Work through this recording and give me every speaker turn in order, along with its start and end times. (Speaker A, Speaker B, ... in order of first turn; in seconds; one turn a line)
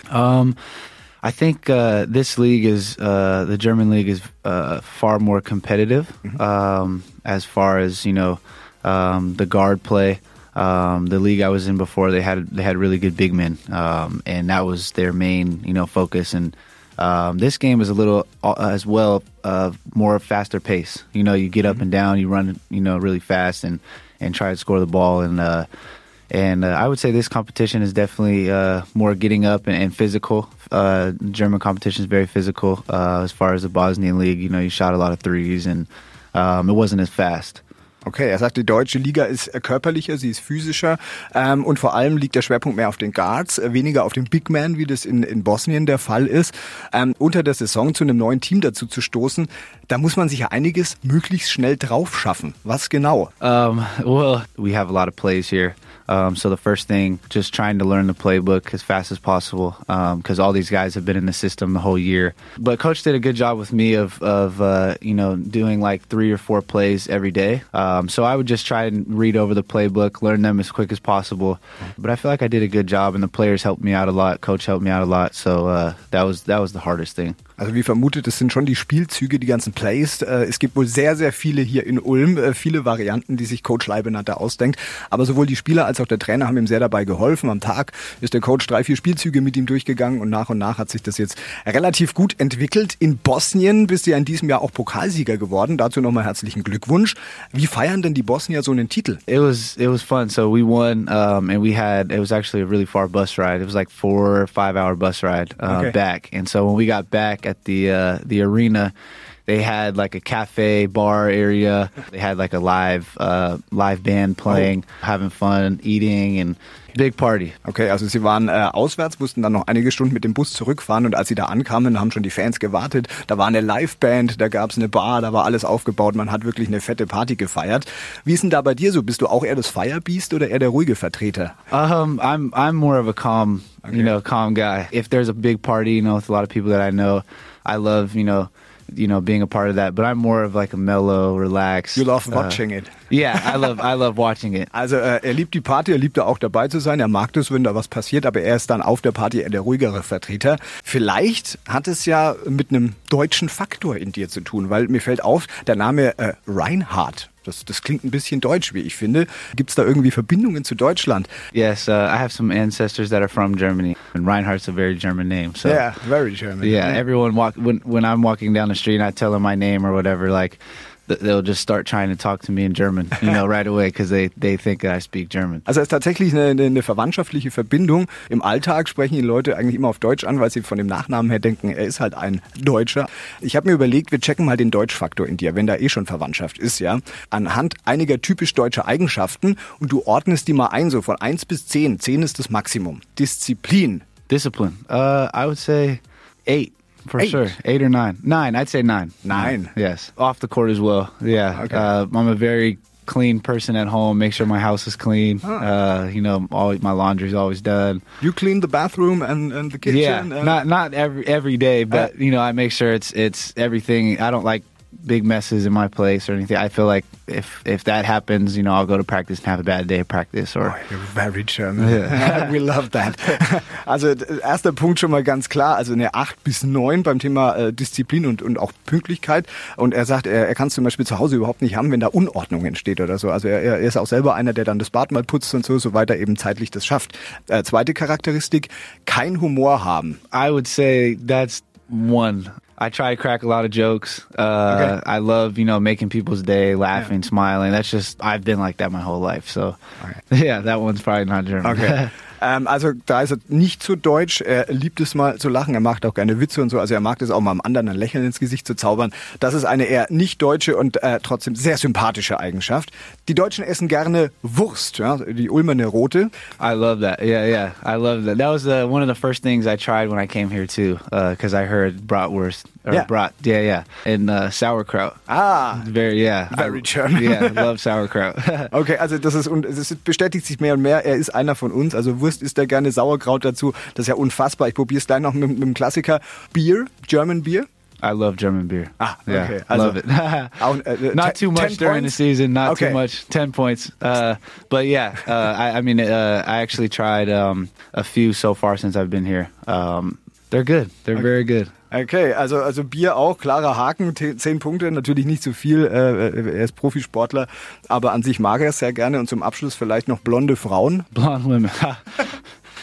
Speaker A: 0.1-0.6
Speaker A: 1.2-25.7
Speaker A: 26.3-37.6
Speaker B: 38.0-53.3
Speaker A: 53.4-77.4
Speaker B: 77.6-99.2
Speaker A: 99.3-108.9
Speaker B: 105.7-106.0
Speaker A: 109.5-117.6
Speaker B: 117.7-131.5
Speaker A: 131.7-144.7
Speaker B: 133.8-134.1
Speaker B: 141.9-143.7
Speaker B: 144.7-161.3
Speaker A: 161.5-165.8
Speaker B: 165.6-167.0
Speaker A: 166.6-175.6
Speaker B: 175.7-194.0
Speaker A: 194.3-208.0
Speaker B: 197.2-197.5
Speaker B: 199.2-199.7
Speaker B: 201.5-201.9
Speaker B: 208.2-210.6
Speaker A: 209.8-220.8
Speaker B: 220.6-240.2
Speaker A: 221.8-222.5
Speaker A: 240.3-249.8
Speaker B: 244.7-245.0
Speaker A: 250.3-252.1
Speaker B: 251.6-266.3
Speaker A: 266.6-275.2
Speaker B: 275.3-275.9
Speaker A: 275.7-278.7
Speaker B: 276.5-277.7
Speaker B: 278.7-287.6
Speaker A: 288.0-301.7
Speaker B: 289.0-290.0
Speaker B: 290.5-293.0
Speaker B: 301.9-311.1
Speaker A: 311.1-312.4